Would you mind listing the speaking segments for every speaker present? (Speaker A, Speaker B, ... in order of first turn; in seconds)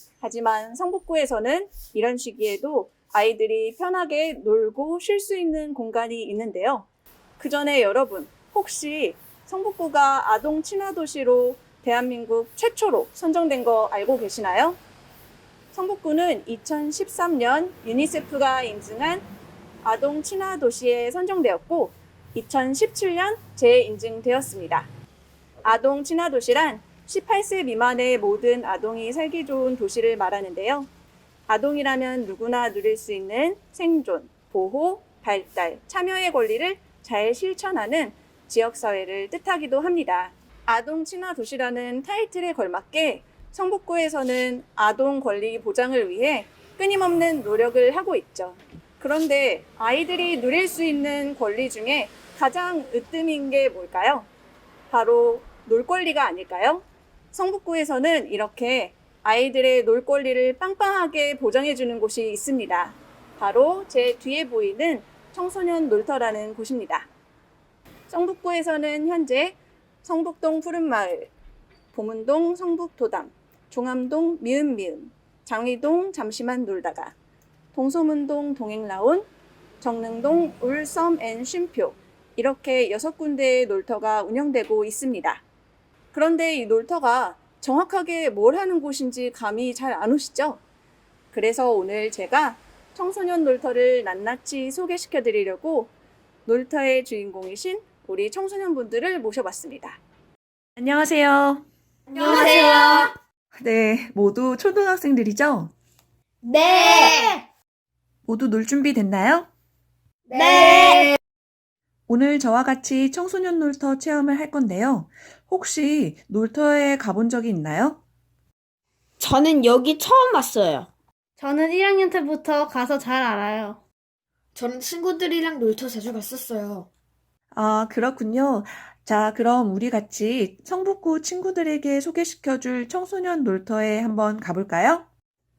Speaker A: 0.2-6.9, 7.4-14.8, 15.7-19.3, 19.8-24.9, 25.6-30.9, 31.5-54.3, 54.9-67.1, 68.1-71.3, 71.9-77.1, 77.7-79.3, 79.8-85.4, 86.1-90.6, 91.3-95.9, 96.5-100.0
Speaker B: 100.8-101.6, 103.6-105.7, 108.3-109.5, 112.1-118.0, 127.5-135.0
Speaker C: 102.1-103.1, 106.7-107.2, 110.3-111.1, 124.6-126.9
Speaker D: 102.2-103.1, 106.4-107.4, 110.3-111.2, 119.2-120.9
Speaker E: 121.4-123.8